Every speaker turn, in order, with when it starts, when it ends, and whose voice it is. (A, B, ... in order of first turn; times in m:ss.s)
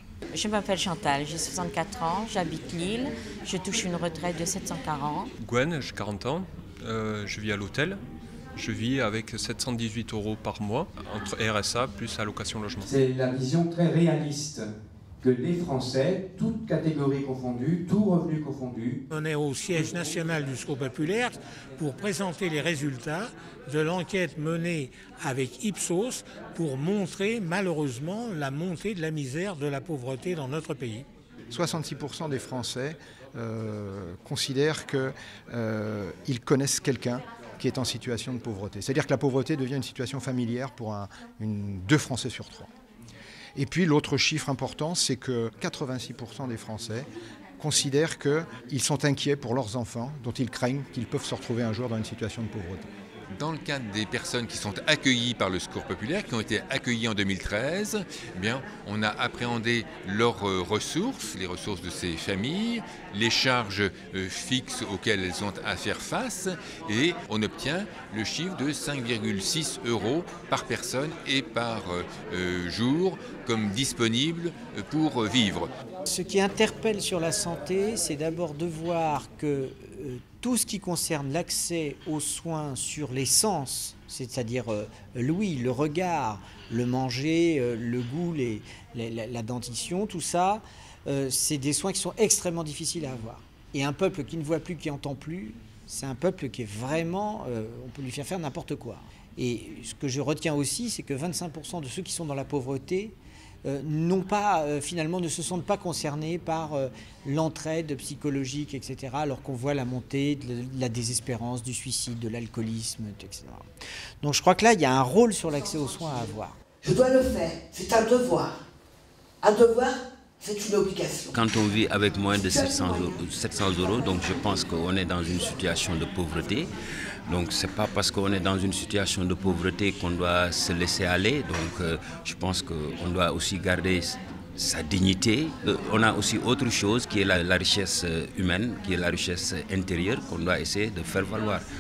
0:00.3-0:05.3 A
0:05.4-0:08.0 B
0:08.6-0:12.9 B
0:12.9-0:14.7 C
0:15.2-0:19.0 C
0:19.1-0:31.1 D
0:31.5-0:42.7 E
0:43.6-0:47.1 E
0:47.6-0:52.9 E
0:53.3-1:15.7 F
1:16.1-1:53.7 G
1:54.2-1:56.6 G
1:56.8-1:58.6 H
1:59.4-2:01.3 H
2:01.3-2:06.7 I
2:02.4-2:03.2 H
2:07.3-2:21.6 I